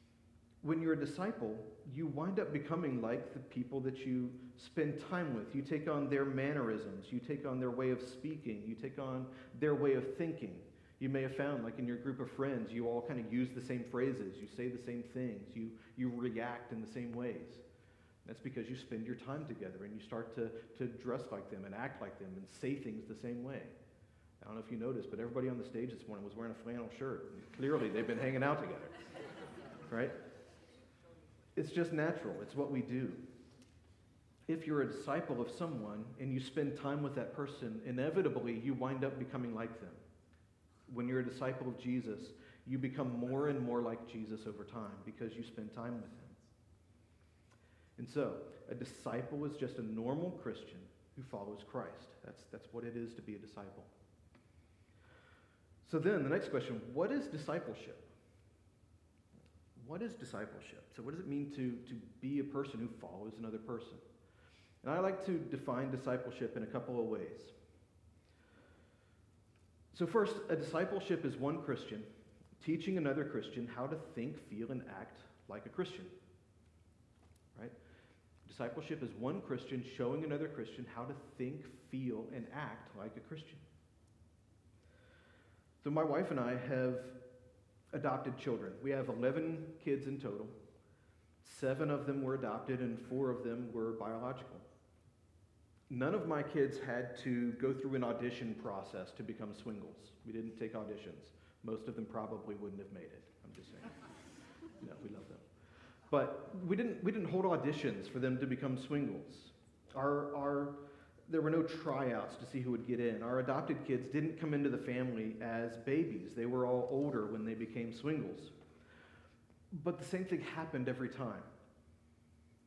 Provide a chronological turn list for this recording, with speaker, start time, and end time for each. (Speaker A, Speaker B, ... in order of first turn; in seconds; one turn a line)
Speaker A: 0.6-17.6
Speaker A: 18.2-23.8
Speaker A: 24.4-28.9
Speaker A: 29.9-30.2
Speaker A: 31.6-33.2
Speaker A: 34.5-40.0
Speaker A: 40.9-46.4
Speaker A: 48.0-53.9
Speaker A: 55.8-58.1
Speaker A: 59.8-64.0
Speaker A: 64.8-67.5
Speaker A: 69.9-76.2
Speaker A: 78.5-83.7
Speaker A: 85.8-87.2
Speaker A: 87.9-90.6
Speaker A: 91.4-94.7
Speaker A: 95.9-104.0
Speaker A: 104.8-105.5
Speaker A: 106.1-118.5
Speaker A: 119.7-121.5